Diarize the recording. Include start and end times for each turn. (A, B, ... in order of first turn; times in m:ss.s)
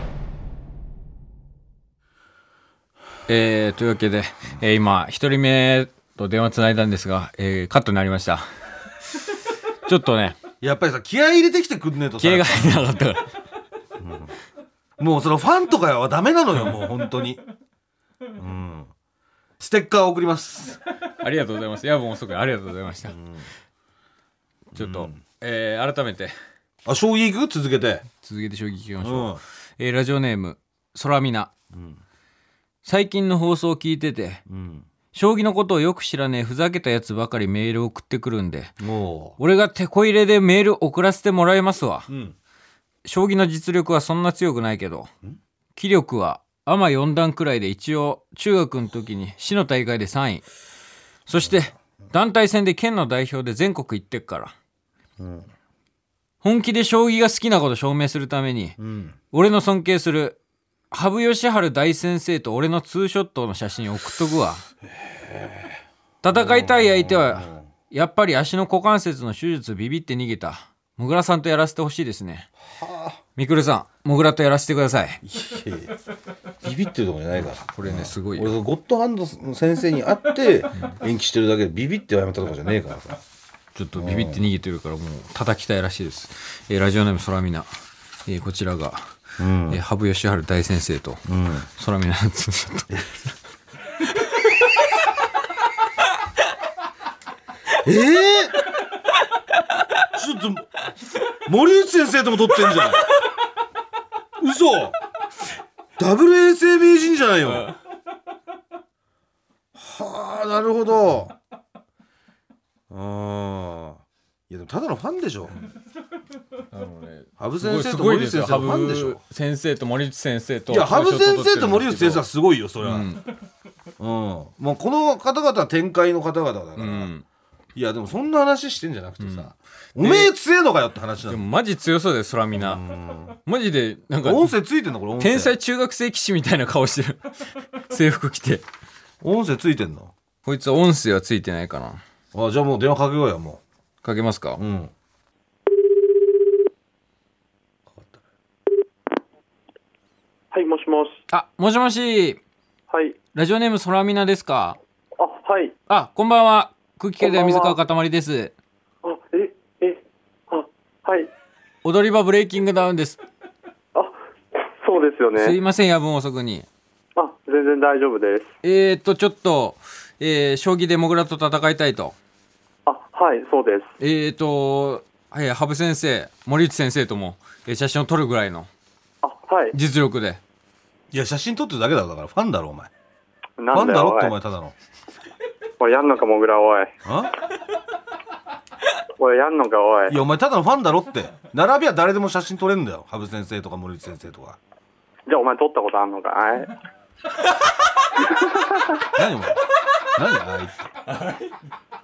0:03.3-0:08.5 A
0:09.9-0:10.4 A
0:10.6-0:12.8 B
0:12.2-0:13.3 A
0:14.0-0:14.3 B
0:15.0-0:17.4 B
0:18.4-0:18.9 B
0:19.6-0:20.8 B
0:21.2-0:23.2 A
0:23.1-0:23.5 B
0:24.7-0:25.2 B
0:24.8-0:26.4 A
0:26.8-0:28.0 B
0:28.1-0:31.5 A
0:29.0-0:29.4 B
0:31.7-0:32.0 B
0:32.8-0:34.4 A
0:34.5-0:34.9 B
0:35.1-0:38.8 A
0:38.8-0:39.4 B
0:39.4-0:42.1 A
0:42.1-0:42.4 B
0:43.0-0:45.1 A
0:45.8-0:50.4 A
0:51.3-0:54.5 A
0:55.2-0:55.5 B
0:56.4-0:58.8 A
0:58.8-0:59.2 B
0:59.3-1:00.4 A
1:00.9-1:04.6 A
1:04.9-1:05.8 B
1:06.2-1:12.5 A
1:06.3-1:07.6 B
1:12.7-1:13.2 B
1:13.4-1:15.2 A
1:15.2-1:16.0 B
1:16.6-1:23.2 B
1:17.7-1:18.5 A
1:23.8-1:27.7 A
1:24.0-1:24.4 B
1:28.3-1:29.1 A
1:29.4-1:29.8 B
1:29.7-1:31.2 A
1:31.3-1:31.7 B
1:31.8-1:33.0 A
1:37.8-1:38.6 B
1:40.1-1:40.7 B
1:41.5-1:43.1 B
1:44.4-1:45.0 B
1:46.0-1:47.7 B
1:47.4-1:47.8 A
1:49.7-1:51.3 B
1:52.9-1:55.6 B
1:56.7-2:02.2 A
1:57.4-1:59.2 B
2:00.7-2:03.1 B
2:02.8-2:03.3 A
2:04.0-2:07.1 B
2:06.8-2:07.2 A
2:07.8-2:11.4 B
2:09.2-2:10.3 A
2:11.3-2:12.8 A
2:12.6-2:13.4 B
2:13.4-2:14.5 A
2:14.2-2:15.6 B
2:15.2-2:18.6 A
2:19.2-2:20.1 B
2:20.4-2:22.0 A
2:22.3-2:23.6 B
2:24.0-2:24.6 A
2:24.6-2:24.9 B
2:27.9-2:28.2 B
2:30.5-2:31.2 C
2:31.3-2:32.4 A
2:32.9-2:33.2 C
2:33.3-2:34.8 A
2:35.2-2:35.8 C
2:35.9-2:38.5 A
2:37.2-2:37.8 C
2:39.0-2:41.3 C
2:41.8-2:43.2 A
2:44.7-2:45.6 C
2:45.4-2:46.7 A
2:47.2-2:48.5 C
2:48.6-2:52.1 A
2:52.9-2:53.9 C
2:54.0-2:58.7 A
2:59.2-2:59.8 C
2:59.7-3:00.4 A
3:01.1-3:02.9 B
3:03.6-3:04.3 C
3:03.7-3:04.7 B
3:05.8-3:07.0 C
3:07.0-3:07.3 B
3:09.2-3:10.2 C
3:10.1-3:14.6 B
3:15.3-3:16.8 C
3:18.2-3:19.0 C
3:19.1-3:19.6 B
3:20.1-3:20.9 B